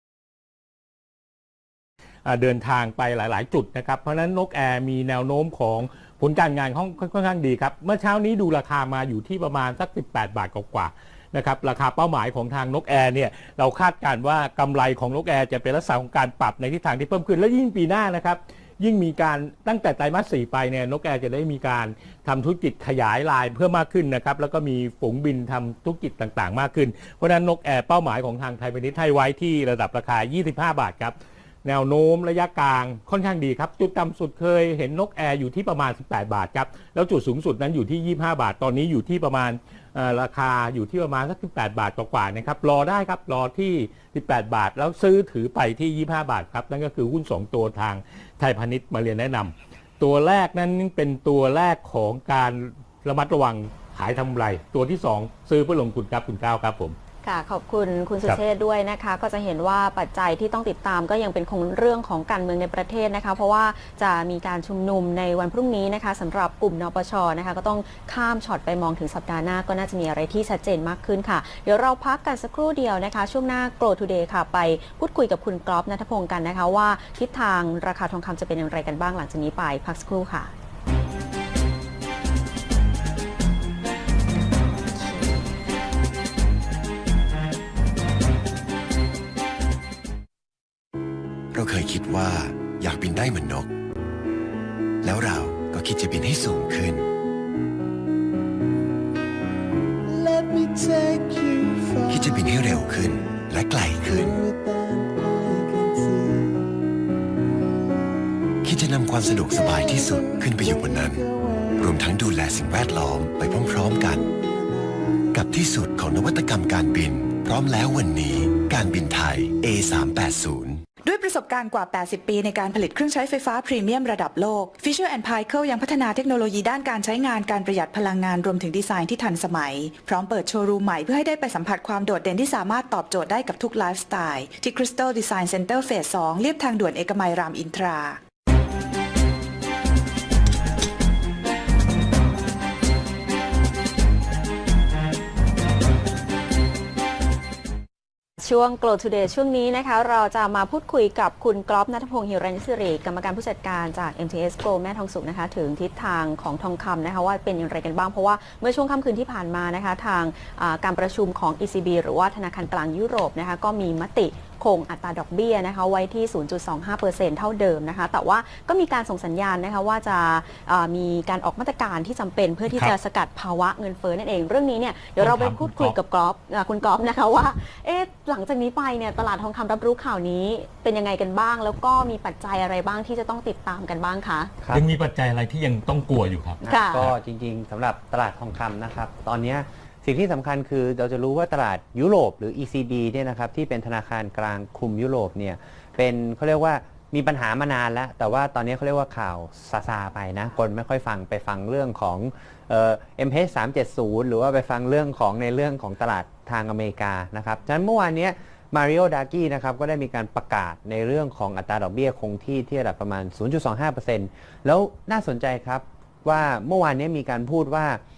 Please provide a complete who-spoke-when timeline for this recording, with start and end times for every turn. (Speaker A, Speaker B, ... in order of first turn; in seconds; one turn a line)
Speaker A: 2.2-57.0
Speaker B: 57.2-80.5
Speaker B: 85.0-85.4
Speaker C: 91.5-93.7
Speaker C: 95.0-97.1
Speaker D: 100.1-106.7
Speaker C: 102.1-104.4
Speaker C: 108.6-111.3
Speaker D: 109.1-112.0
Speaker C: 111.8-114.3
Speaker D: 113.4-115.4
Speaker C: 115.3-120.9
Speaker E: 121.0-138.2
Speaker B: 148.4-184.5
Speaker A: 175.2-175.9
Speaker A: 184.7-187.1
Speaker F: 186.6-218.0
Speaker B: 186.7-187.1